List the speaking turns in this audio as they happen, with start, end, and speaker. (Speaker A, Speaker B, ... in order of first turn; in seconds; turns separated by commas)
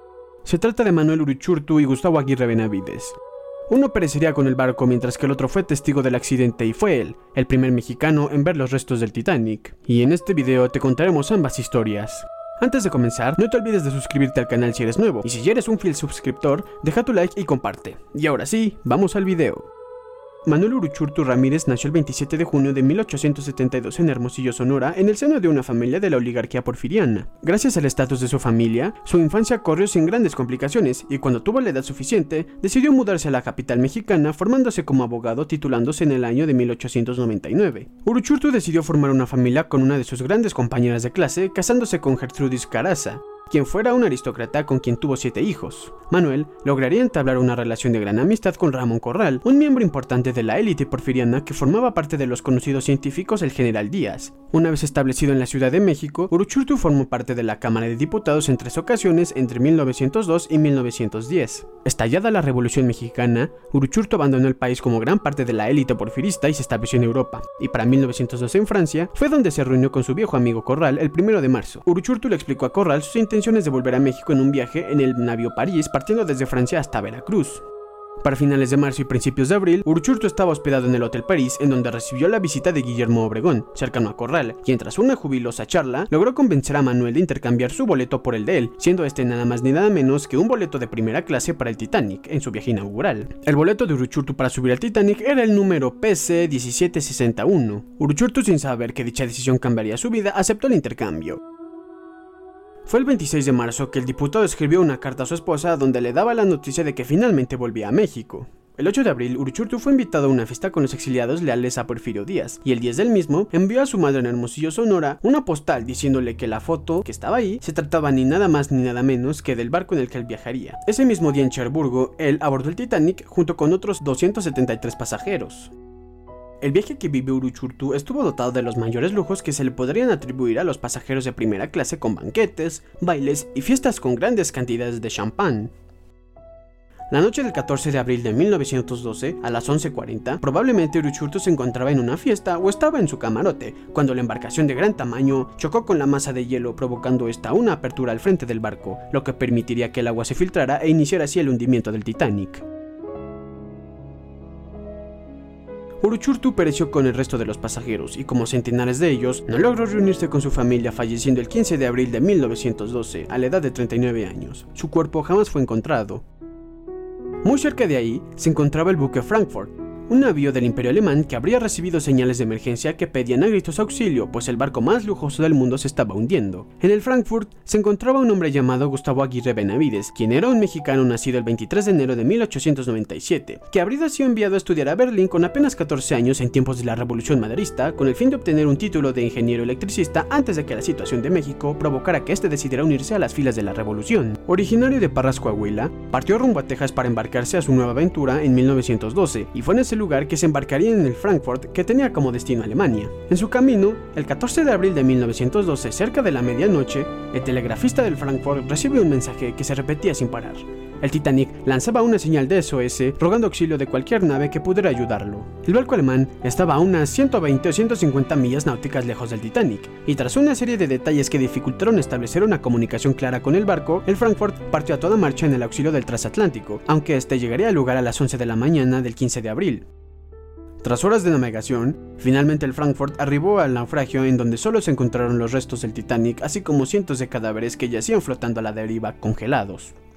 Speaker A: 0.4-3.2, Speaker A: 3.7-19.7, Speaker A: 20.5-77.6, Speaker A: 78.2-101.4, Speaker A: 102.9-125.7, Speaker A: 126.6-135.7, Speaker A: 137.1-152.7, Speaker A: 156.0-166.2, Speaker A: 167.4-229.9, Speaker A: 230.8-239.9